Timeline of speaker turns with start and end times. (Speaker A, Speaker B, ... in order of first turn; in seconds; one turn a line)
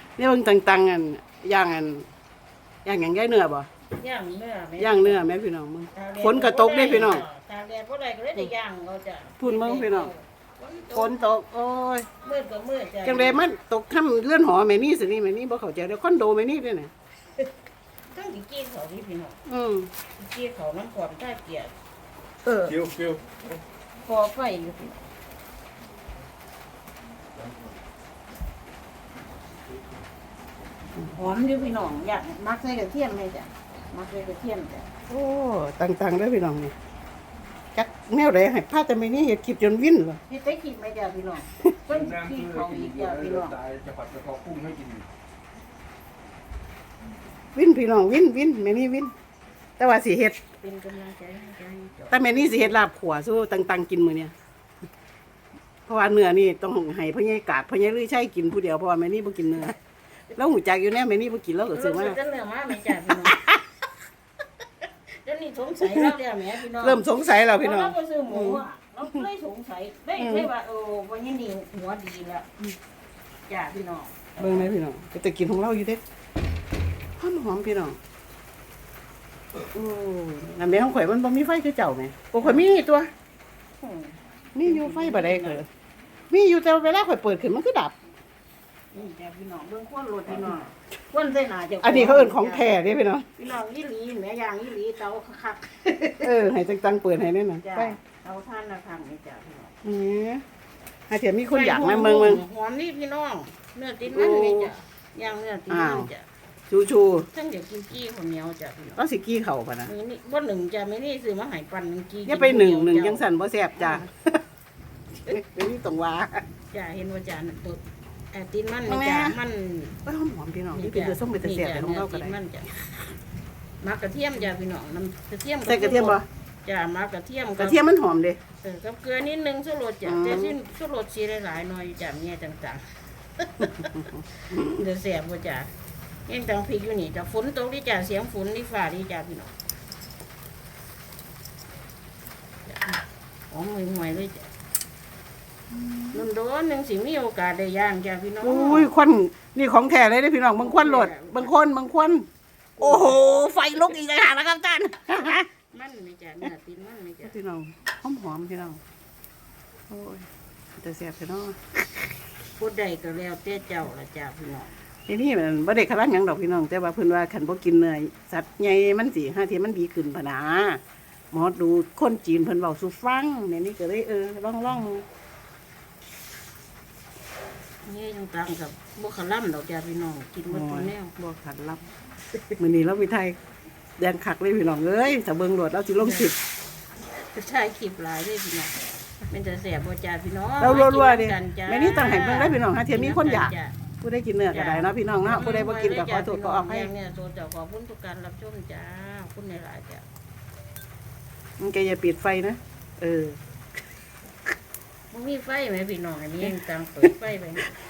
Speaker A: 0.2-2.0
Speaker A: 2.8-3.7
Speaker B: 4.0-5.3
Speaker A: 4.8-7.2
Speaker B: 5.9-11.2
Speaker A: 9.4-10.1
Speaker A: 10.9-12.1
Speaker B: 12.2-13.4
Speaker A: 13.0-16.9
Speaker B: 18.1-19.4
Speaker A: 19.5-19.9
Speaker B: 20.2-21.7
Speaker B: 22.5-22.8
Speaker C: 22.7-23.2
Speaker B: 24.0-25.0
Speaker B: 31.1-34.9
Speaker A: 35.1-36.7
Speaker A: 37.7-40.2
Speaker B: 40.3-43.6
Speaker C: 41.9-45.1
Speaker A: 47.5-49.1
Speaker A: 49.8-50.4
Speaker B: 50.6-52.8
Speaker A: 52.1-54.3
Speaker A: 55.9-59.8
Speaker A: 60.3-62.2
Speaker B: 61.7-63.4
Speaker A: 62.9-63.6
Speaker B: 64.8-67.0
Speaker A: 65.8-66.1
Speaker A: 66.8-69.2
Speaker B: 67.5-72.5
Speaker A: 70.2-70.5
Speaker B: 73.5-74.6
Speaker A: 74.4-76.0
Speaker A: 77.2-78.0
Speaker A: 79.7-83.1
Speaker B: 83.8-85.6
Speaker A: 84.5-85.7
Speaker A: 86.3-87.9
Speaker B: 88.9-92.8
Speaker A: 91.8-93.3
Speaker B: 93.4-96.3
Speaker A: 96.2-98.0
Speaker B: 97.6-99.8
Speaker A: 99.8-100.4
Speaker A: 101.1-102.4
Speaker B: 101.5-106.3
Speaker A: 104.1-104.7
Speaker A: 105.7-106.1
Speaker A: 106.7-107.3
Speaker B: 107.3-109.0
Speaker A: 109.0-109.9
Speaker B: 109.8-113.2
Speaker A: 112.2-114.4
Speaker A: 115.3-116.4
Speaker B: 116.7-117.8
Speaker B: 118.3-120.0
Speaker A: 118.9-119.4
Speaker A: 120.0-122.4
Speaker B: 120.7-122.7
Speaker B: 123.8-127.8
Speaker A: 125.7-126.2
Speaker A: 127.6-128.4
Speaker B: 128.6-132.8
Speaker A: 130.0-130.6
Speaker B: 133.4-135.7
Speaker A: 133.8-134.8
Speaker B: 136.3-139.5
Speaker B: 142.7-144.5
Speaker B: 146.1-148.9
Speaker A: 148.4-152.2
Speaker B: 150.6-151.5
Speaker B: 152.8-153.2
Speaker A: 152.8-155.5
Speaker B: 155.5-157.3
Speaker A: 157.2-158.8
Speaker A: 159.9-160.3
Speaker A: 160.8-162.0
Speaker B: 162.6-164.7
Speaker A: 165.1-170.8
Speaker A: 171.3-175.0
Speaker B: 177.8-181.1
Speaker A: 180.5-181.8
Speaker A: 182.6-183.3
Speaker A: 184.0-186.3
Speaker B: 186.0-186.3
Speaker B: 187.2-193.8
Speaker A: 190.6-196.9
Speaker B: 194.5-200.1
Speaker A: 201.6-203.4
Speaker B: 205.1-207.7